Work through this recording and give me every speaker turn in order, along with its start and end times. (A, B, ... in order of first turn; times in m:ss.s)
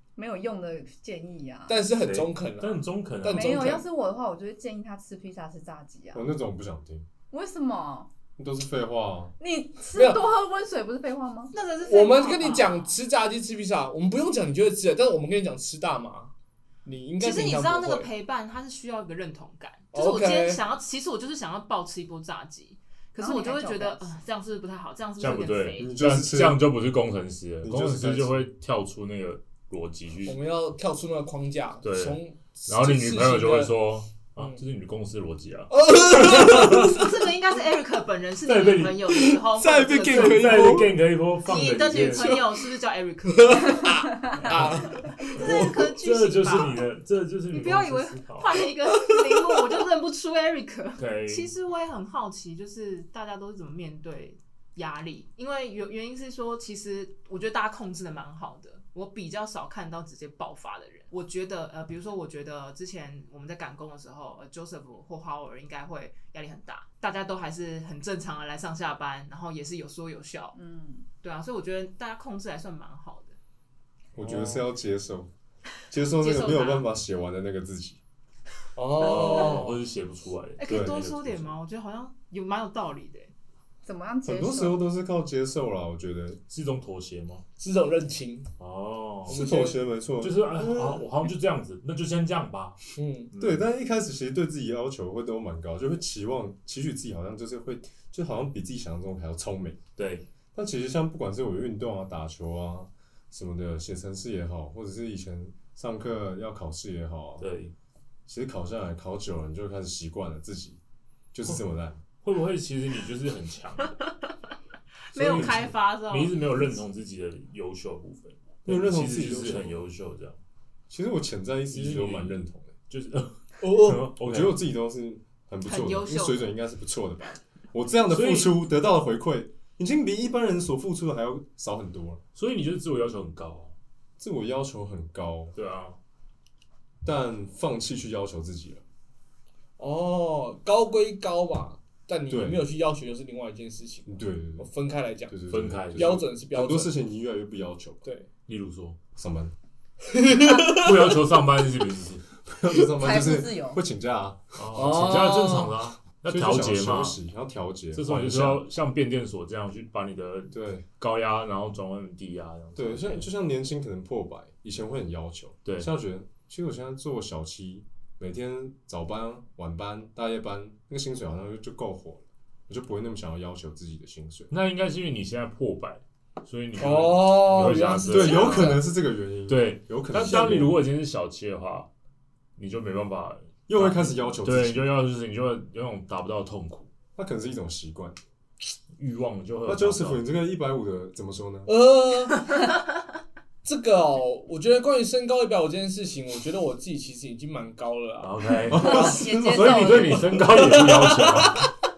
0:00.2-0:01.9 A
0:01.7-0:03.8 B
0:02.0-0:03.8 C
0:03.3-0:06.2 A
0:06.1-0:07.0 D
0:07.3-0:08.1 A
0:08.4-0:09.3 D
0:09.4-0:11.5 A
0:09.9-0:10.3 B
0:11.5-0:13.0 E
0:11.8-0:16.3 B
0:16.8-0:18.1 B
0:17.2-0:25.9 E
0:19.9-0:20.6 B
0:23.2-0:24.2 A
0:25.2-0:30.4 C
0:25.8-0:26.6 D
0:27.6-0:28.5 D
0:30.2-0:33.8 B
0:31.8-0:37.0 C
0:34.4-0:34.6 B
0:35.7-0:37.2 B
0:36.8-0:40.9 E
0:38.4-0:39.0 C
0:39.1-0:41.0 B
0:40.0-0:42.4 C
0:41.4-0:43.9 E
0:41.5-0:42.6 B
0:43.2-0:45.9 B
0:44.4-0:44.8 C
0:45.3-0:46.8 E
0:46.0-0:48.5 C
0:47.5-1:10.6 E
0:49.0-0:49.6 B
0:51.0-0:51.5 C
1:10.5-1:11.1 A
1:11.2-1:13.4 E
1:14.1-1:15.3 D
1:14.2-1:14.7 B
1:15.9-1:18.0 D
1:16.2-1:16.9 E
1:18.8-1:19.8 B
1:18.9-1:21.5 C
1:20.6-1:23.3 E
1:20.7-1:21.0 D
1:23.8-1:24.8 A
1:24.2-1:26.4 D
1:26.5-1:27.4 C
1:27.6-1:28.5 B
1:28.6-1:29.4 C
1:29.3-1:29.8 B
1:29.3-1:31.0 D
1:30.2-1:33.7 C
1:33.0-1:33.3 B
1:33.4-1:39.8 D
1:40.0-1:40.2 C
1:40.5-1:47.5 D
1:47.4-1:47.7 C
1:48.3-1:50.8 D
1:51.3-1:52.0 D
1:52.2-1:54.0 C
1:55.1-1:56.8 E
1:55.1-2:00.4 C
1:58.7-1:59.8 D
2:00.9-2:02.7 D
2:01.7-2:04.6 C
2:03.6-2:04.1 B
2:04.2-2:12.2 D
2:05.6-2:06.5 E
2:08.1-2:08.5 C
2:12.3-2:13.7 C
2:14.2-2:15.5 D
2:15.5-2:16.0 C
2:17.0-2:18.8 D
2:19.8-2:25.4 B
2:22.3-2:22.6 D
2:24.0-2:24.7 D
2:25.3-2:28.0 D
2:25.5-2:26.2 C
2:25.9-2:26.9 B
2:28.5-2:29.0 C
2:29.2-2:29.5 D
2:30.0-2:31.1 B
2:30.6-2:32.3 C
2:32.5-2:34.4 D
2:33.0-2:33.8 A
2:34.5-2:37.2 C
2:34.7-2:35.8 B
2:36.2-2:38.6 D
2:37.9-2:43.3 C
2:40.5-2:40.8 D
2:42.8-2:54.5 D
2:45.6-2:45.9 C
2:54.5-2:58.9 C
2:56.8-2:58.5 B
2:58.1-3:00.8 D
2:58.4-2:58.8 A
2:59.5-3:01.9 C
3:00.1-3:00.5 B
3:02.6-3:06.9 C
3:03.7-3:04.9 D
3:07.2-3:08.2 D
3:08.9-3:10.2 C
3:09.6-3:11.7 D
3:11.6-3:12.7 B
3:13.6-3:19.3 B
3:18.2-3:21.7 C
3:18.7-3:20.3 D
3:18.8-3:20.4 A
3:20.5-3:21.7 B